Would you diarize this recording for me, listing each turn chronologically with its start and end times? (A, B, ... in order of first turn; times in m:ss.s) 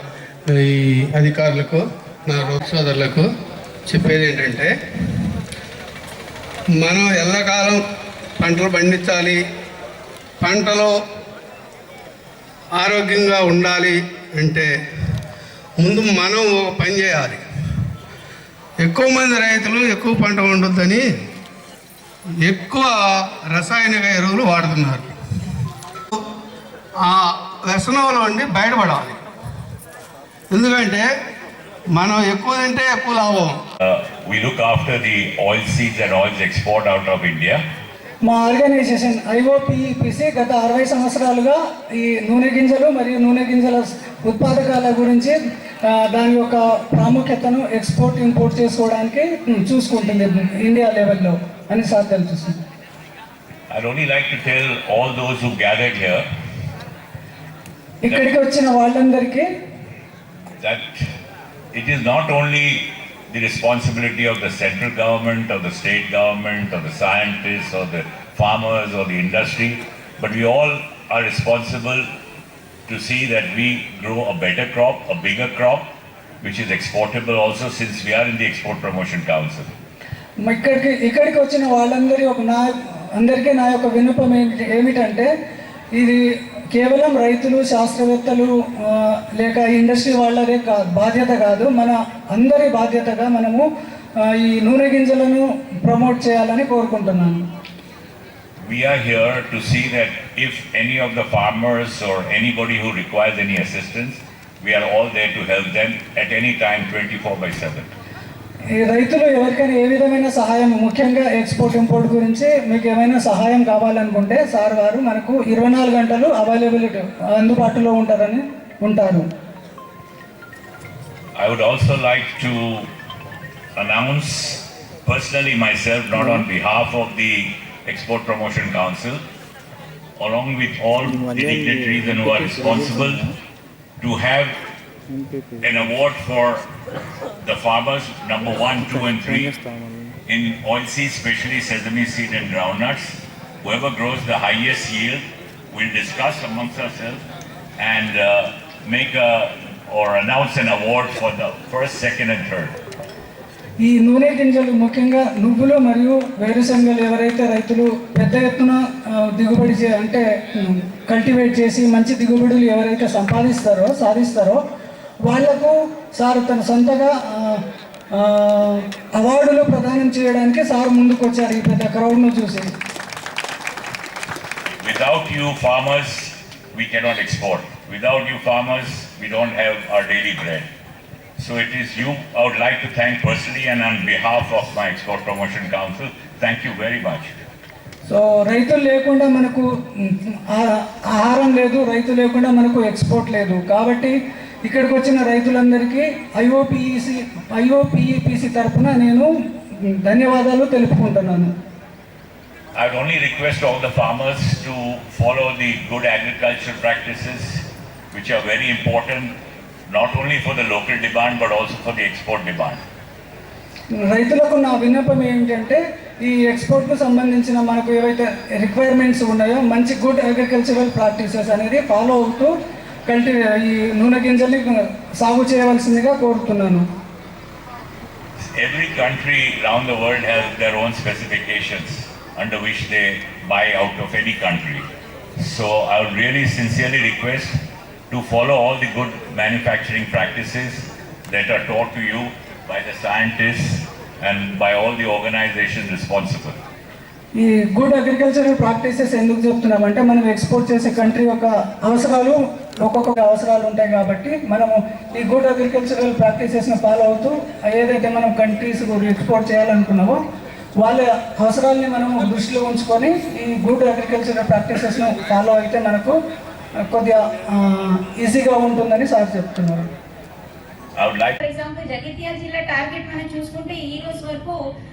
0:00.5-0:03.3 A
0:03.9-0:04.7 A
0:06.8-0:07.8 A
0:08.4-0:09.4 A
0:10.4-0:10.9 A
0:12.8-0:14.7 A
0:15.8-0:17.4 A
0:18.8-0:21.0 A
0:22.4-0:22.9 A
0:23.5-0:25.1 A
0:27.0-0:29.2 A
0:30.5-0:31.1 A
0:32.0-0:33.6 A
0:33.8-0:37.6 B
0:38.3-0:52.6 C
0:53.7-0:56.3 B
0:58.0-0:59.5 C
1:00.6-1:01.1 B
1:01.7-1:12.1 B
1:12.9-1:15.8 B
1:16.4-1:19.7 B
1:20.4-1:25.3 C
1:26.0-1:26.2 C
1:26.7-1:33.6 C
1:34.2-1:37.4 C
1:38.6-1:47.9 B
1:48.8-1:59.3 C
2:01.4-2:02.9 B
2:03.8-2:09.2 B
2:10.2-2:13.3 B
2:14.0-2:14.6 B
2:15.6-2:16.7 B
2:17.4-2:19.5 B
2:20.3-2:27.2 B
2:27.8-2:32.7 B
2:33.8-2:44.6 C
2:45.3-2:47.6 C
2:48.2-2:52.7 C
2:54.8-3:00.7 B
3:01.4-3:07.3 B
3:08.1-3:19.3 C
3:20.0-3:21.5 C
3:22.8-3:29.3 B
3:29.9-3:32.8 B
3:34.1-3:42.5 C
3:43.1-3:46.8 C
3:48.6-3:54.9 B
3:55.4-4:06.6 B
4:07.4-4:20.2 C
4:20.8-4:26.2 C
4:26.9-4:29.9 C
4:31.0-4:31.4 B
4:31.4-4:34.6 D